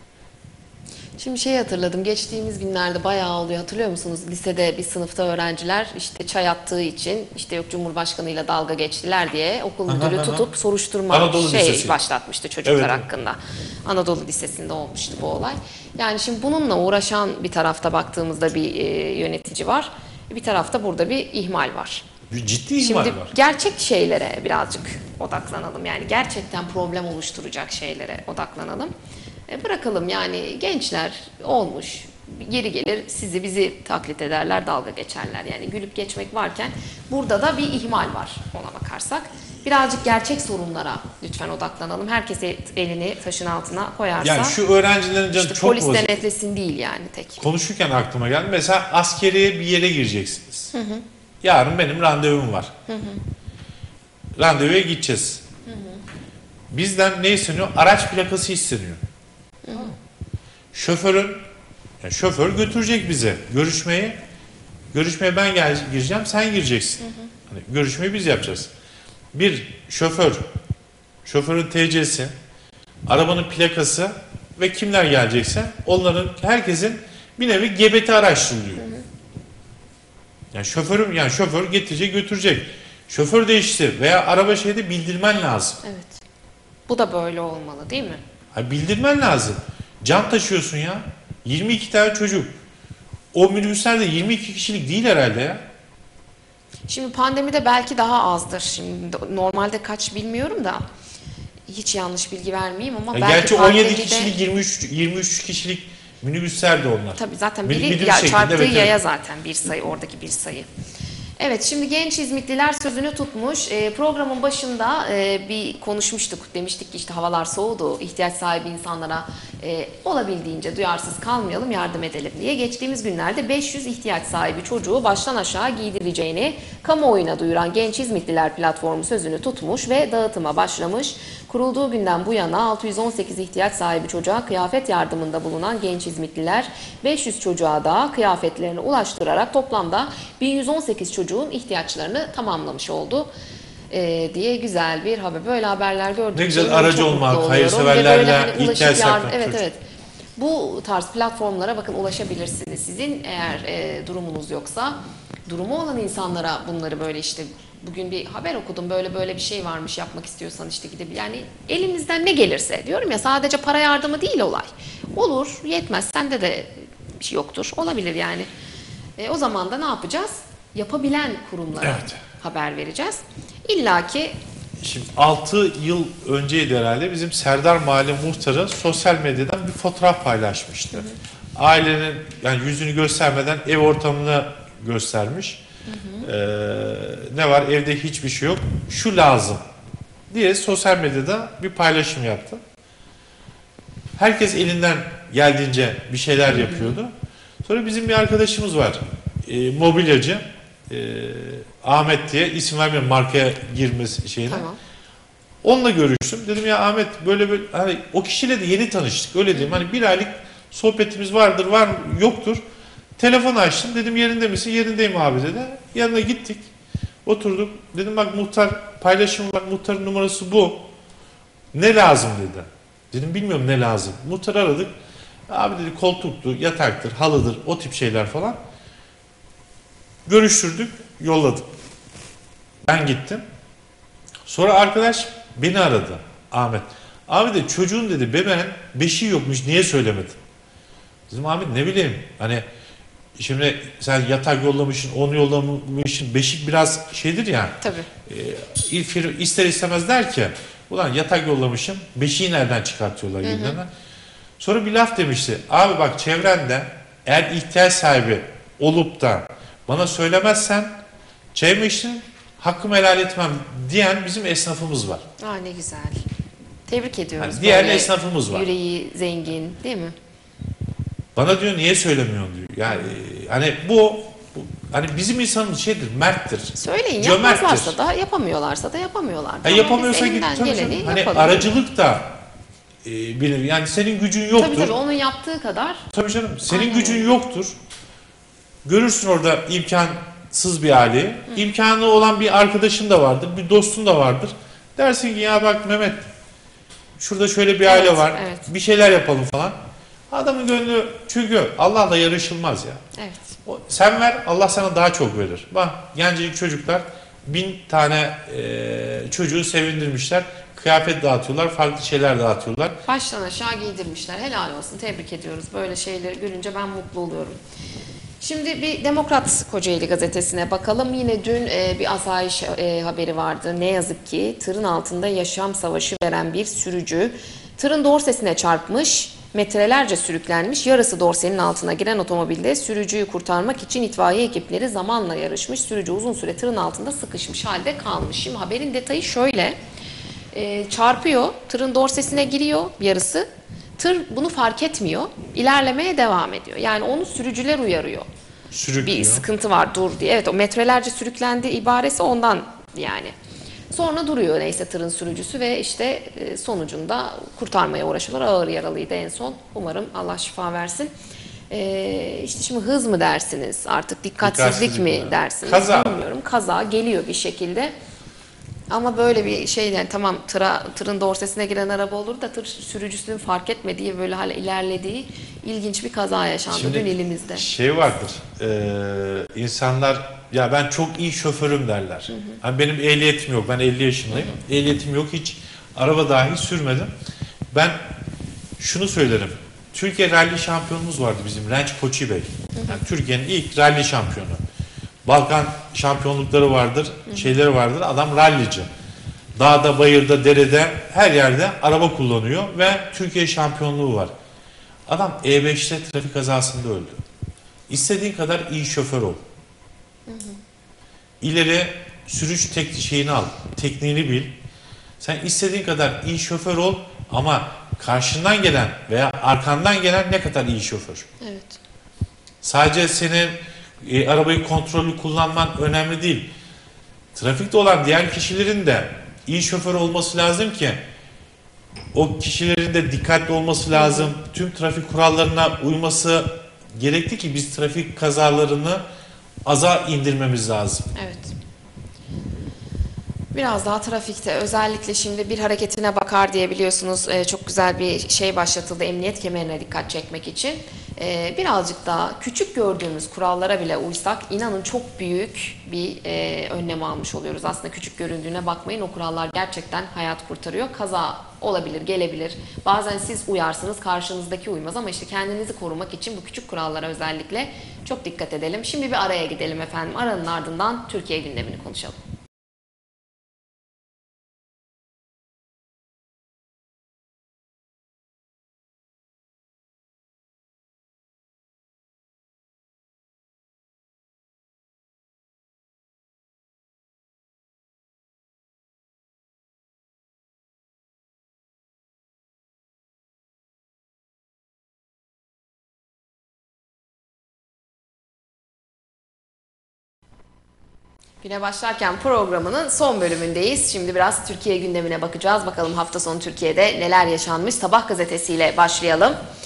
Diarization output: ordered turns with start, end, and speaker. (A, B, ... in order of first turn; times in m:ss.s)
0:01.2-0:22.0 A
0:09.9-0:10.5 B
0:11.1-0:12.0 B
0:12.6-0:13.0 B
0:22.3-0:23.3 B
0:22.8-0:28.9 A
0:29.5-0:44.6 A
0:44.2-0:46.2 B
0:45.3-0:47.4 A
0:47.4-0:50.7 B
0:50.7-0:51.0 A
0:51.4-0:52.7 B
0:52.9-0:53.2 A
0:54.4-0:55.4 B
0:55.7-0:56.0 A
0:56.7-0:59.0 B
0:59.6-0:59.9 A
1:00.7-1:01.4 B
1:02.0-1:04.2 B
1:04.9-1:08.7 B
1:07.0-1:07.3 A
1:09.3-1:10.4 B
1:11.2-1:12.3 B
1:13.1-1:18.8 B
1:18.8-1:19.0 A
1:20.5-1:25.8 B
1:25.8-1:26.2 A
1:26.9-1:28.2 A
1:28.5-1:32.5 B
1:33.3-1:35.6 B
1:36.9-1:40.8 A
1:41.7-1:44.3 A
1:43.1-1:48.9 B
1:47.2-1:50.7 A
1:51.4-2:23.3 A
2:23.9-2:29.8 A
2:26.3-2:29.6 B
2:30.4-2:48.5 A
2:49.2-2:54.3 A
2:51.8-2:52.2 B
2:54.8-3:05.6 B
3:05.9-3:06.3 A
3:06.2-3:09.6 B
3:10.3-3:12.6 B
3:14.2-3:17.1 B
3:16.5-3:17.0 A
3:17.6-3:24.6 B
3:24.5-3:24.8 A
3:25.6-3:32.6 B
3:29.5-3:29.8 A
3:33.2-3:36.6 B
3:37.2-3:40.8 B
3:41.7-3:44.9 B
3:45.5-3:48.6 B
3:50.2-3:51.7 B
3:52.8-3:53.4 B
3:54.4-4:00.4 B
4:01.3-4:02.6 B
4:03.4-4:07.8 B
4:07.8-4:08.1 A
4:08.3-4:13.9 B
4:13.4-4:13.8 A
4:14.6-4:20.9 B
4:21.5-4:25.2 B
4:25.4-4:26.2 A
4:26.9-4:30.1 A
4:27.4-4:28.7 B
4:31.3-4:38.0 B
4:36.8-4:41.7 A
4:39.6-4:42.4 B
4:43.0-4:44.9 B
4:44.5-4:46.0 A
4:46.1-4:47.8 B
4:46.7-4:47.3 A
4:48.8-4:56.2 B
4:57.2-4:59.8 B
4:57.8-4:58.7 A
5:00.3-5:03.0 B
5:03.2-5:03.6 A
5:03.6-5:13.0 B
5:13.0-5:17.6 A
5:18.4-5:39.8 A
5:40.5-5:43.5 A
5:44.0-5:48.3 A
5:48.7-5:49.4 B
5:49.0-5:53.3 A
5:53.9-6:01.1 A
6:01.7-6:07.9 A
6:04.4-6:06.2 B
6:08.9-6:17.6 A
6:16.7-6:27.1 B
6:22.3-6:22.6 A
6:24.3-6:24.6 A
6:27.7-6:28.0 B
6:28.8-6:34.6 B
6:32.8-6:33.0 A
6:35.2-6:38.9 B
6:37.3-6:37.5 A
6:39.6-6:44.3 B
6:45.1-6:47.2 B
6:47.9-6:49.4 B
6:50.3-6:50.6 A
6:51.4-6:54.6 B
6:55.2-7:01.3 B
7:01.4-7:01.8 A
7:02.6-7:06.5 B
7:07.3-7:11.0 B
7:12.1-7:19.0 B
7:13.9-7:14.3 A
7:19.6-7:21.1 B
7:21.1-7:21.5 A
7:23.5-7:52.2 A
8:21.4-8:29.4 A